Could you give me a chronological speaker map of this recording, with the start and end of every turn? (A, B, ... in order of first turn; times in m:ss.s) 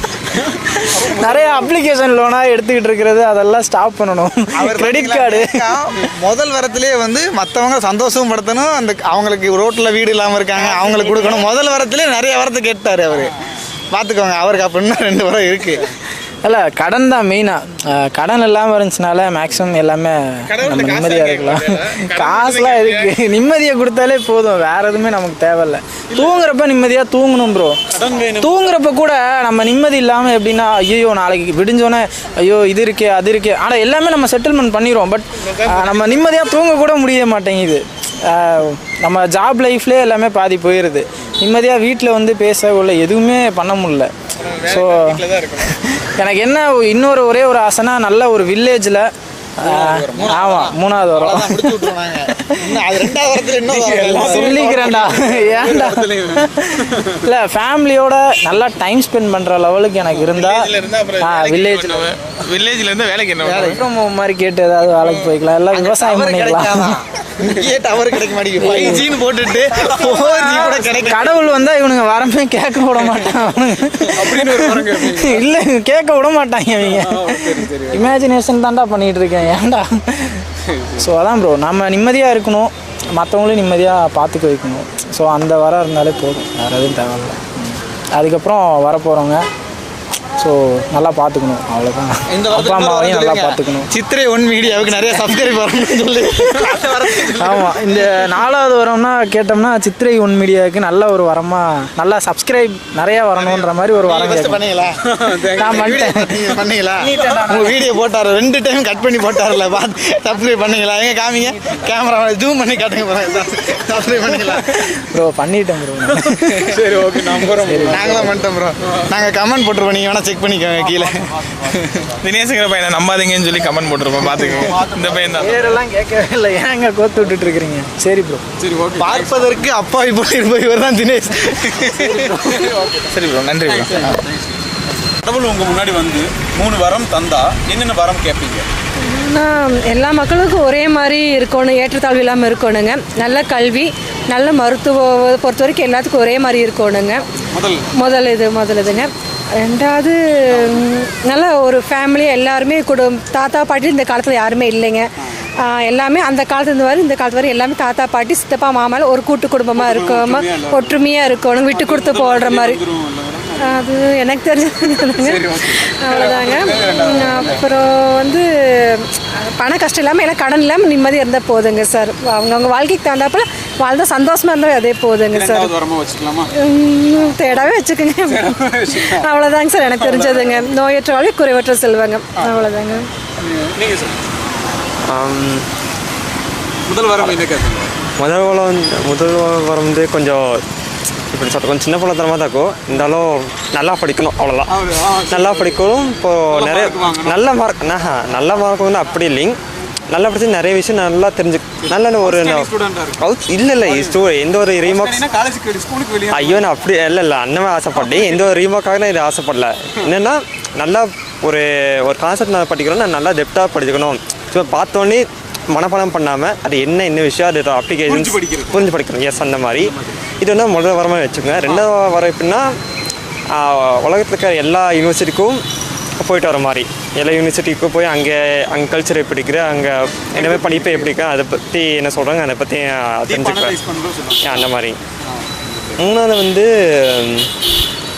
0:00.5-0:01.7 A
0:01.0-0:05.6 B
0:04.6-0:13.3 C
0:13.9-0:15.9 C
0:16.4-0:27.8 B
0:20.5-0:23.1 D
0:26.1-0:26.4 A
0:27.9-0:28.7 A
0:28.4-0:44.1 B
0:35.6-0:36.2 A
0:44.4-0:45.7 A
0:44.6-0:45.2 B
0:46.2-0:49.1 B
0:49.6-0:51.8 B
0:49.6-0:50.6 A
0:50.2-0:55.1 C
0:53.7-0:57.1 A
0:53.9-1:02.0 B
1:00.3-1:03.7 D
1:03.4-1:03.8 C
1:03.6-1:06.9 B
1:05.7-1:11.4 C
1:08.6-1:09.1 B
1:10.6-1:20.4 B
1:14.2-1:15.4 A
1:16.8-1:18.2 A
1:20.7-1:21.1 A
1:21.0-1:29.4 B
1:30.4-1:33.9 B
1:32.3-1:37.8 C
1:37.3-1:44.6 B
1:43.4-1:44.9 C
1:45.0-1:46.5 A
1:45.4-1:54.9 C
1:45.5-1:46.4 B
1:47.0-1:47.8 B
1:55.1-1:56.8 B
1:56.1-1:58.2 A
1:57.5-1:58.3 B
1:57.8-2:01.2 C
2:00.8-2:02.1 A
2:02.2-2:05.6 D
2:04.2-2:05.8 A
2:05.4-2:08.4 B
2:08.6-2:09.7 A
2:09.0-2:12.7 C
2:11.7-2:13.1 A
2:13.1-2:13.9 D
2:13.7-2:18.6 A
2:19.0-2:27.2 E
2:27.5-2:28.2 A
2:28.0-2:35.0 E
2:30.5-2:30.8 A
2:35.7-2:42.8 E
2:39.8-2:41.0 A
2:41.7-2:43.8 A
2:43.6-2:45.4 E
2:45.0-2:47.7 A
2:46.0-2:48.4 E
2:49.5-2:55.7 E
2:55.3-2:56.5 A
2:56.6-3:03.0 E
2:58.2-2:59.3 A
2:59.9-3:00.7 A
3:02.4-3:02.7 A
3:03.4-3:04.2 A
3:05.1-3:05.6 F
3:06.8-3:07.9 A
3:08.2-3:10.6 F
3:11.3-3:14.7 F
3:14.7-3:15.8 A
3:15.3-3:19.6 F
3:16.5-3:17.4 A
3:20.1-3:22.7 F
3:21.8-3:23.3 A
3:23.2-3:25.2 F
3:23.8-3:24.2 A
3:24.8-3:26.7 A
3:26.3-3:42.7 F
3:27.9-3:28.5 A
3:38.1-3:38.9 A
3:39.8-3:40.2 A
3:43.6-3:45.6 F
3:46.2-3:53.8 F
3:50.3-3:51.1 A
3:53.3-3:54.7 A
3:54.4-3:55.0 F
3:55.2-3:56.0 A
3:56.0-3:57.5 F